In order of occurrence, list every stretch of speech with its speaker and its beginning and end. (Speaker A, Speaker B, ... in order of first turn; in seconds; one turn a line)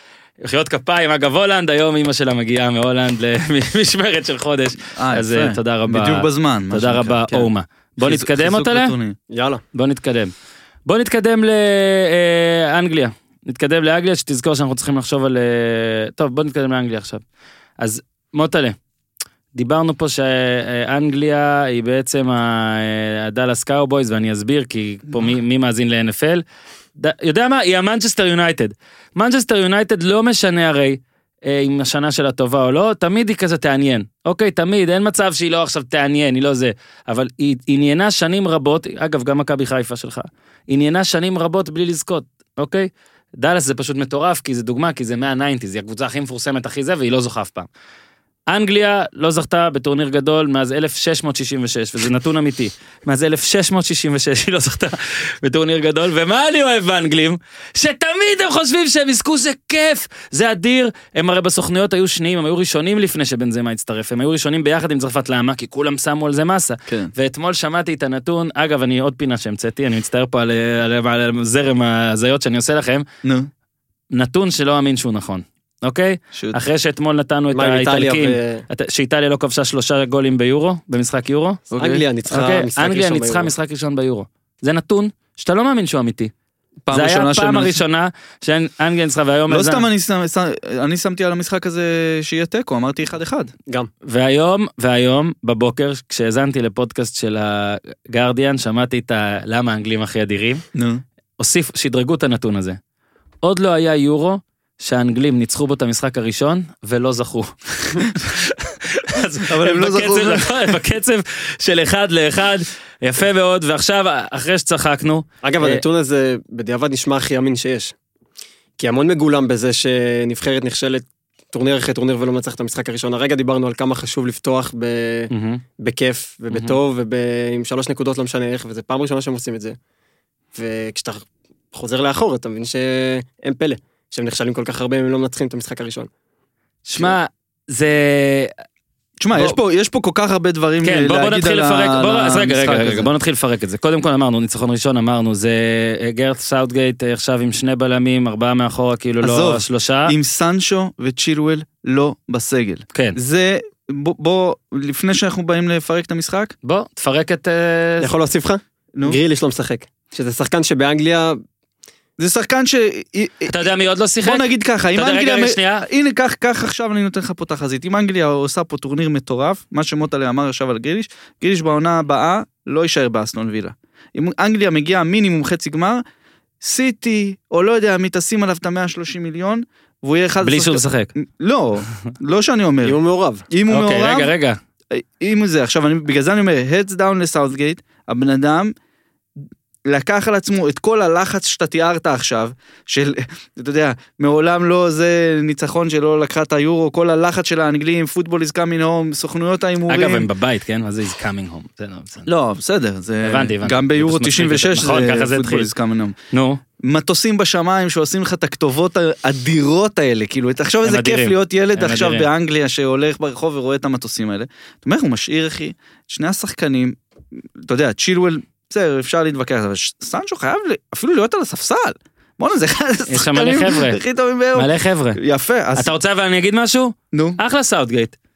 Speaker A: 0.4-8.9
Speaker B: 5.0-7.5
Speaker B: 8.0-9.2
Speaker C: 9.3-9.6
Speaker A: 9.7-10.3
Speaker A: 10.8-17.2
Speaker A: 17.8-18.8
Speaker A: 19.5-26.4
Speaker A: 26.9-47.7
Speaker A: 48.5-73.0
Speaker B: 73.2-73.5
Speaker A: 74.1-81.6
Speaker B: 76.3-76.6
Speaker C: 77.5-78.6
Speaker B: 81.7-82.0
Speaker C: 81.7-83.5
Speaker A: 82.3-86.3
Speaker B: 86.8-87.8
Speaker A: 86.9-89.8
Speaker B: 89.5-93.5
Speaker A: 94.0-100.6
Speaker B: 100.7-101.0
Speaker A: 101.4-102.8
Speaker A: 103.4-115.8
Speaker B: 109.4-110.7
Speaker C: 115.4-117.9
Speaker C: 118.8-129.8
Speaker A: 125.3-125.6
Speaker A: 126.5-126.8
Speaker C: 130.5-136.1
Speaker A: 136.8-138.5
Speaker B: 139.2-143.1
Speaker A: 140.8-150.1
Speaker B: 149.2-156.5
Speaker A: 156.6-158.1
Speaker C: 158.0-161.4
Speaker B: 162.2-163.6
Speaker A: 163.5-164.4
Speaker B: 164.2-176.0
Speaker A: 164.9-165.8
Speaker B: 176.6-183.0
Speaker A: 180.4-181.1
Speaker C: 182.8-183.4
Speaker B: 183.5-184.3
Speaker A: 183.7-184.6
Speaker B: 184.9-188.7
Speaker B: 189.9-200.3
Speaker A: 199.9-202.3
Speaker B: 202.3-206.2
Speaker A: 203.2-205.7
Speaker A: 206.3-206.6
Speaker B: 206.8-216.9
Speaker A: 210.8-212.3
Speaker B: 217.6-225.9
Speaker A: 223.1-224.0
Speaker A: 224.5-225.2
Speaker A: 225.8-228.1
Speaker B: 227.1-227.4